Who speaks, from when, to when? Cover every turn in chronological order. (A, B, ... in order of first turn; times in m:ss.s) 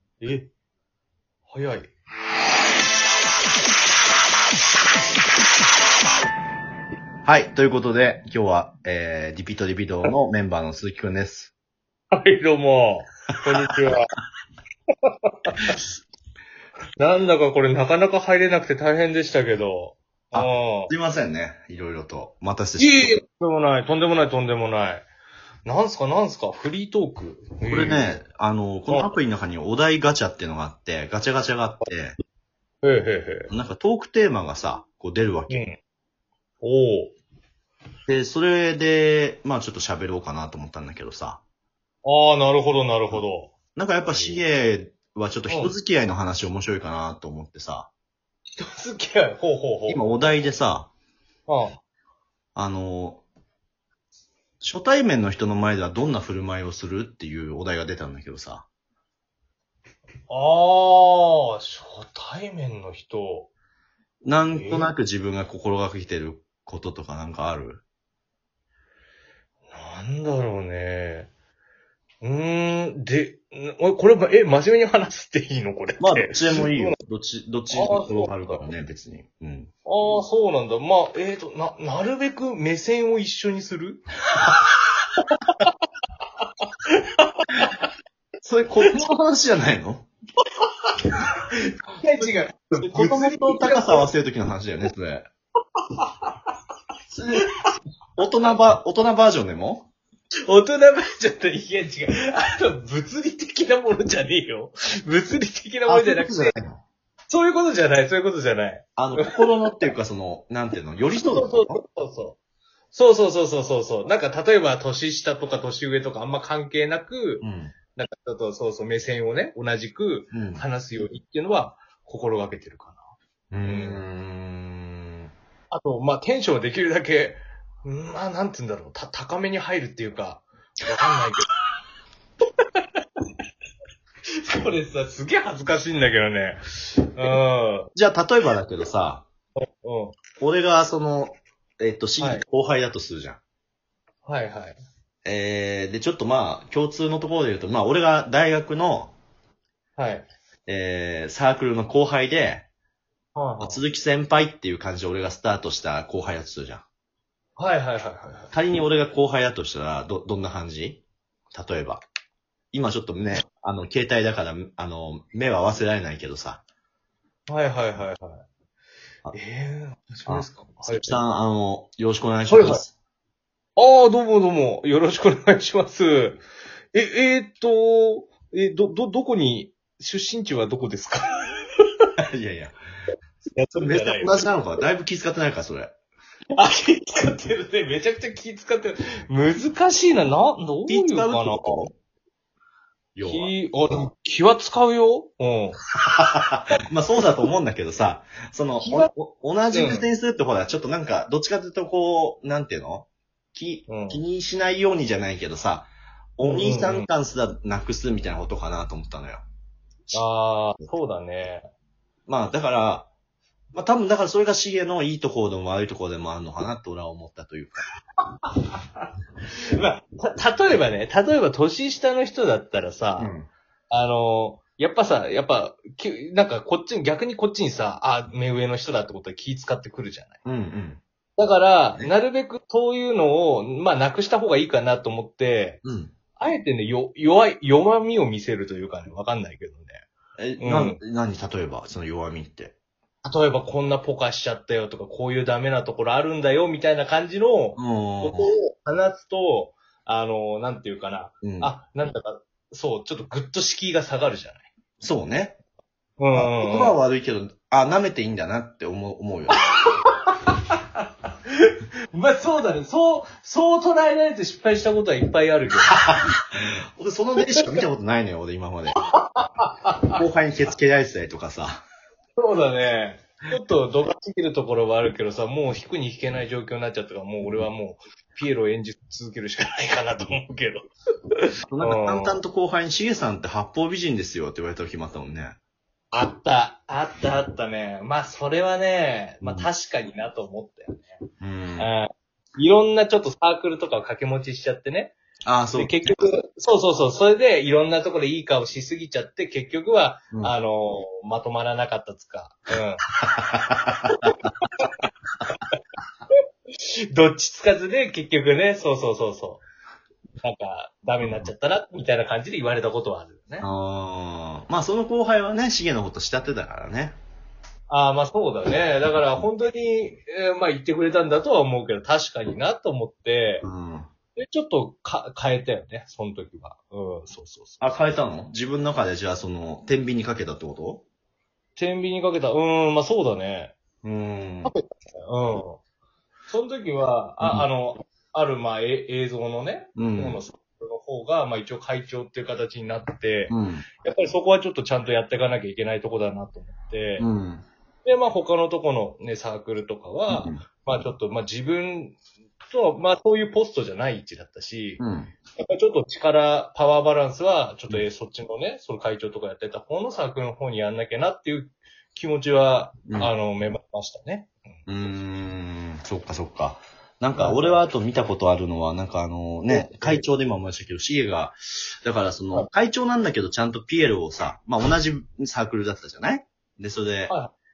0:00.2-0:00.5 A
0:01.5-0:01.9 A
0:07.2-0:11.5 B
0:12.1-0:14.1 A
0:15.0-0:15.8 A
0:17.0-0:20.9 A
0:20.3-0:23.1 B
0:22.8-0:25.0 A
0:25.6-0:28.1 A
0:27.6-0:32.1 B
0:32.8-0:33.5 A
0:33.5-0:35.6 B
0:35.5-0:35.8 A
0:36.6-0:37.1 A
0:38.1-0:41.4 B
0:42.0-0:44.4 A
0:43.7-0:47.9 B
0:45.5-0:45.7 A
0:48.5-0:50.1 A
0:49.9-0:50.9 B
0:51.5-0:51.8 A
0:52.6-0:53.2 B
0:54.6-0:58.7 B
1:00.3-1:03.5 A
1:04.2-1:07.8 B
1:04.5-1:04.9 A
1:09.7-1:11.3 A
1:12.2-1:17.0 A
1:16.0-1:20.2 B
1:17.7-1:18.7 A
1:19.9-1:24.8 A
1:25.3-1:25.7 A
1:26.6-1:27.9 A
1:28.4-1:30.1 B
1:30.9-1:34.1 A
1:32.2-1:35.2 B
1:35.8-1:36.5 A
1:37.1-1:37.5 B
1:37.4-1:37.7 A
1:38.2-1:39.9 B
1:40.5-1:46.6 A
1:45.9-1:46.8 B
1:47.3-1:49.3 A
1:49.0-1:51.8 B
1:51.2-1:52.4 A
1:52.9-2:03.0 A
1:57.4-1:57.7 B
2:00.3-2:00.6 B
2:03.5-2:05.3 B
2:03.7-2:04.0 A
2:05.7-2:11.5 A
2:12.6-2:13.3 A
2:14.4-2:17.9 A
2:17.9-2:19.2 B
2:19.6-2:20.2 A
2:20.4-2:23.4 B
2:22.2-2:22.4 A
2:24.2-2:24.8 A
2:25.2-2:29.1 B
2:30.0-2:30.3 A
2:30.7-2:32.7 B
2:33.3-2:33.8 A
2:33.6-2:36.8 B
2:37.6-2:38.5 A
2:38.5-2:42.0 B
2:42.7-2:46.6 B
2:47.5-2:48.5 A
2:49.3-2:51.2 A
2:50.3-2:52.9 B
2:52.5-2:52.8 A
2:53.8-2:56.4 A
2:56.9-3:01.7 A
3:02.2-3:02.8 B
3:03.5-3:04.5 A
3:03.8-3:05.9 B
3:06.5-3:11.9 A
3:10.9-3:11.9 B
3:13.2-3:13.5 B
3:13.2-3:15.8 A
3:16.0-3:29.4 B
3:18.8-3:19.1 A
3:19.7-3:20.1 A
3:23.9-3:24.2 A
3:26.4-3:27.1 A
3:30.1-3:31.7 A
3:32.3-3:33.1 B
3:33.7-3:37.8 B
3:38.3-3:43.3 A
3:43.2-3:43.5 B
3:43.9-3:50.4 A
3:50.4-3:51.0 B
3:51.4-3:55.8 A
3:55.8-3:56.1 B
3:56.4-4:00.0 A
4:00.4-4:02.8 B
4:00.6-4:01.0 A
4:03.2-4:14.7 A
4:07.8-4:08.5 B
4:11.4-4:11.7 B
4:15.0-4:15.6 B
4:16.2-4:17.0 A
4:16.3-4:19.6 B
4:19.6-4:26.1 A
4:25.8-4:29.0 B
4:27.6-4:27.8 A
4:29.0-4:30.2 A
4:30.1-4:31.8 B
4:32.4-4:42.4 A
4:41.7-4:45.6 B
4:46.1-4:51.2 A
4:49.4-4:49.7 B
4:51.4-4:51.9 B
4:51.8-4:55.2 A
4:55.4-4:56.3 B
4:55.7-5:03.0 A
5:03.2-5:04.5 B
5:04.2-5:04.9 A
5:05.5-5:05.8 A
5:06.3-5:09.6 A
5:10.4-5:13.7 A
5:11.2-5:11.5 B
5:13.6-5:17.2 B
5:17.9-5:23.6 A
5:23.6-5:24.1 B
5:24.4-5:27.8 A
5:27.8-5:31.0 B
5:31.8-5:33.8 A
5:34.0-5:34.7 B
5:34.6-5:35.8 A
5:36.5-5:47.3 A
5:37.4-5:37.7 B
5:40.0-5:40.4 B
5:43.5-5:43.9 B
5:47.2-5:47.7 B
5:48.0-5:52.2 A
5:50.3-5:50.6 B
5:52.7-5:55.0 A
5:55.0-5:55.3 B
5:55.6-6:04.8 A
6:03.1-6:03.3 B
6:04.9-6:17.4 B
6:07.3-6:07.8 A
6:09.7-6:10.2 A